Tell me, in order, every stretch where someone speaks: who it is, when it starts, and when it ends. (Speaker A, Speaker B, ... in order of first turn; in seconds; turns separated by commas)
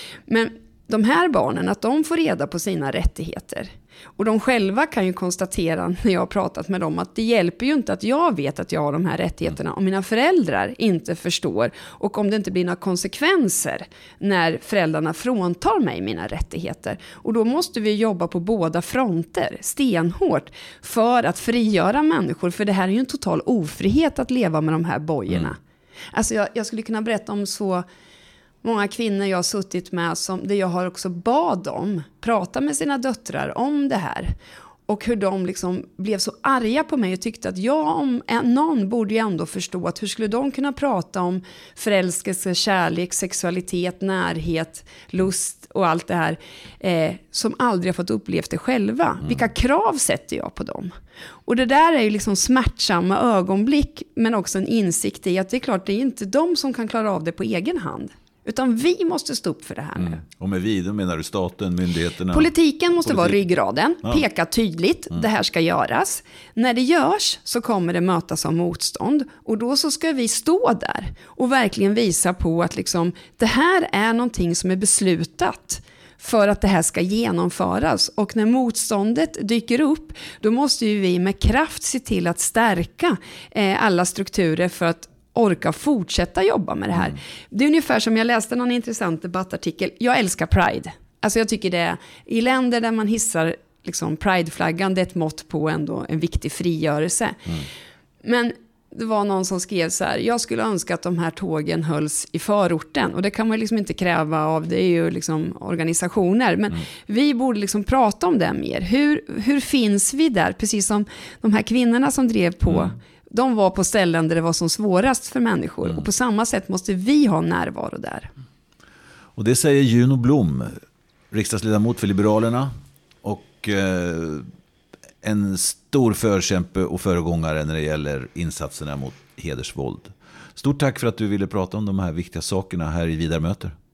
Speaker A: 0.3-25.6, Speaker A: 26.1-27.8, Speaker A: 28.6-34.3, Speaker A: 34.9-50.9, Speaker A: 51.5-60.2, Speaker B: 60.0-62.5, Speaker A: 62.3-97.7, Speaker B: 63.0-63.4, Speaker A: 98.2-118.3, Speaker B: 119.3-120.8, Speaker B: 121.3-122.7, Speaker B: 123.2-124.5, Speaker B: 125.2-133.7